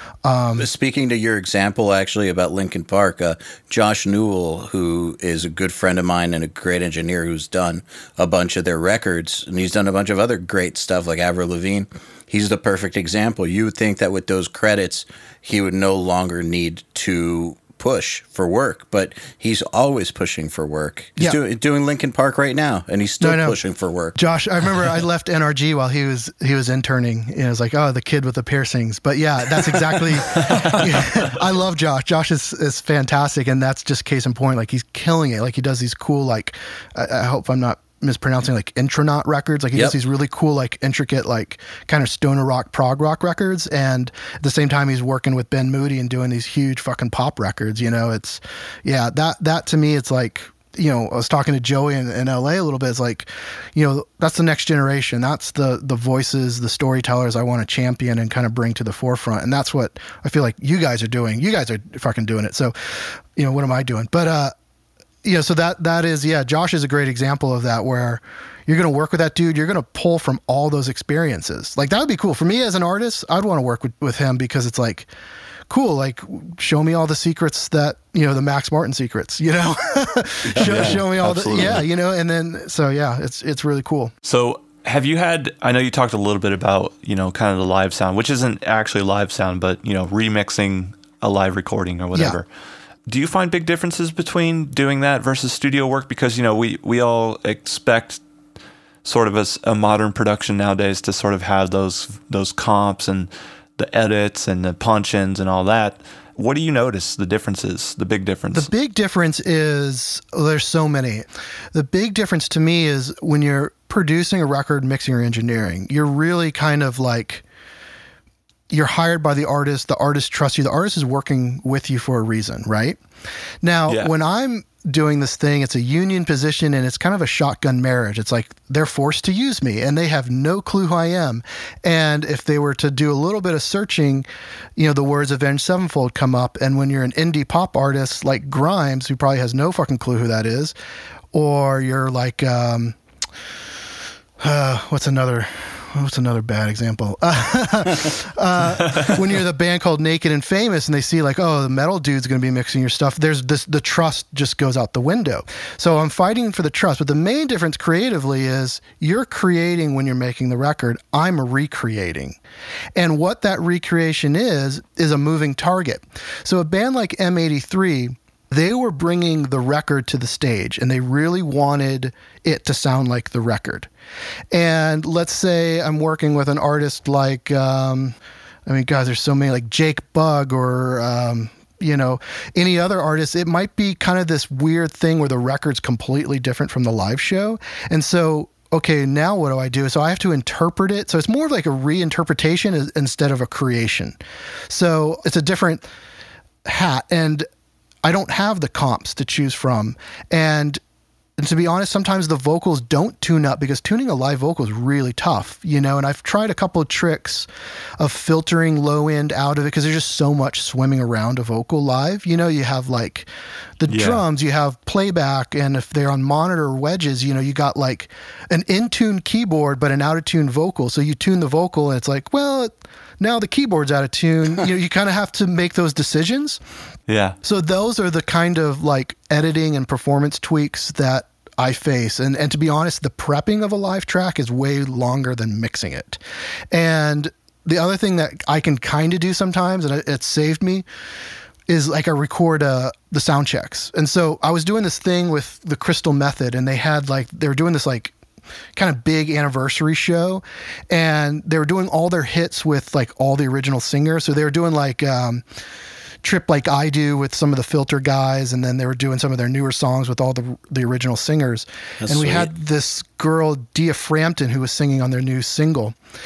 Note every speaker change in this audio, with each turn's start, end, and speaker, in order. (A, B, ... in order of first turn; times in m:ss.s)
0:00.2-0:00.7 A
0:00.6-0:24.2 B
0:23.2-0:23.6 A
0:24.2-1:04.5 A
1:05.2-1:15.1 A
1:15.7-1:24.1 A
1:20.6-1:21.0 B
1:20.6-1:21.9 C
1:24.2-1:32.5 C
1:33.1-1:38.2 C
1:39.0-1:48.7 C
1:48.5-1:57.4 A
1:58.7-2:03.0 A
2:03.6-2:14.3 A
2:03.9-2:04.1 C
2:14.8-2:20.7 A
2:21.3-2:23.0 A
2:24.4-2:42.4 A
2:43.0-2:53.9 A
2:54.5-3:14.2 A
3:14.7-3:15.9 A
3:16.7-3:17.5 A
3:18.0-3:20.8 A
3:21.4-3:27.5 A
3:28.0-3:33.3 A
3:33.8-3:46.6 A
3:33.9-3:34.2 C
3:47.1-3:47.4 C
3:47.4-3:56.2 A
3:56.7-4:00.8 A
4:01.7-4:08.1 A
4:08.8-4:15.4 A
4:16.2-4:26.0 A
4:22.0-4:22.5 B